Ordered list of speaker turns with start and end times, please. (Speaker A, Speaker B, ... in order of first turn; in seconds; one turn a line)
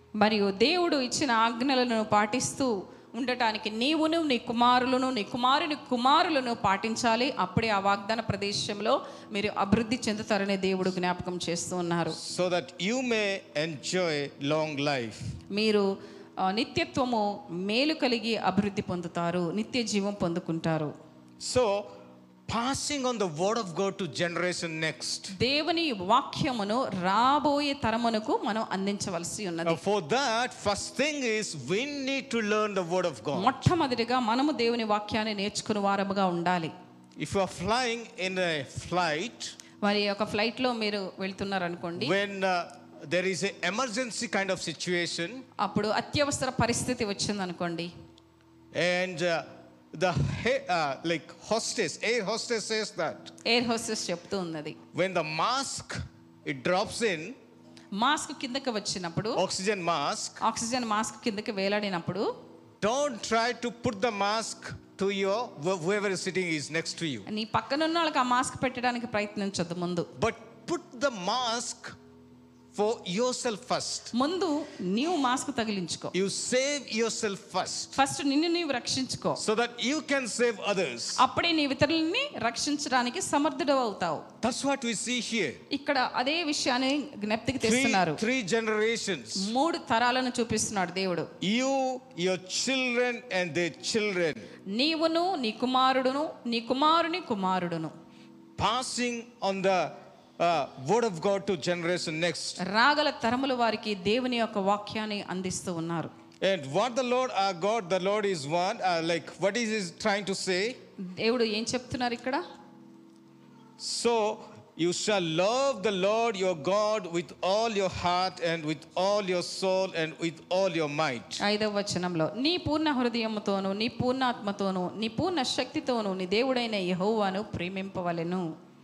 Speaker A: 0.2-12.2
Speaker B: 12.1-15.2
Speaker A: 15.5-15.9
Speaker A: 16.4-20.9
Speaker B: 21.4-21.9
Speaker B: 22.5-25.3
Speaker A: 25.3-29.8
Speaker B: 29.6-33.6
Speaker A: 33.3-36.7
Speaker B: 37.2-39.5
Speaker A: 39.8-42.1
Speaker B: 42.0-45.4
Speaker A: 45.6-47.9
Speaker B: 48.7-53.3
Speaker A: 53.5-54.8
Speaker B: 54.9-57.4
Speaker A: 57.9-59.4
Speaker B: 59.4-60.4
Speaker A: 60.4-62.3
Speaker B: 62.8-67.2
Speaker A: 67.3-70.1
Speaker B: 70.2-71.9
Speaker B: 72.7-74.1
Speaker A: 74.1-76.1
Speaker B: 76.1-78.0
Speaker A: 78.0-79.4
Speaker B: 79.4-81.2
Speaker A: 81.2-84.2
Speaker B: 84.4-85.6
Speaker A: 85.7-88.2
Speaker B: 87.6-89.5
Speaker A: 89.4-91.3
Speaker B: 91.4-94.5
Speaker A: 94.7-97.9
Speaker B: 98.6-102.6
Speaker A: 102.6-106.1
Speaker B: 106.4-110.8
Speaker A: 111.0-112.4
Speaker B: 113.8-121.4
Speaker A: 121.4-128.4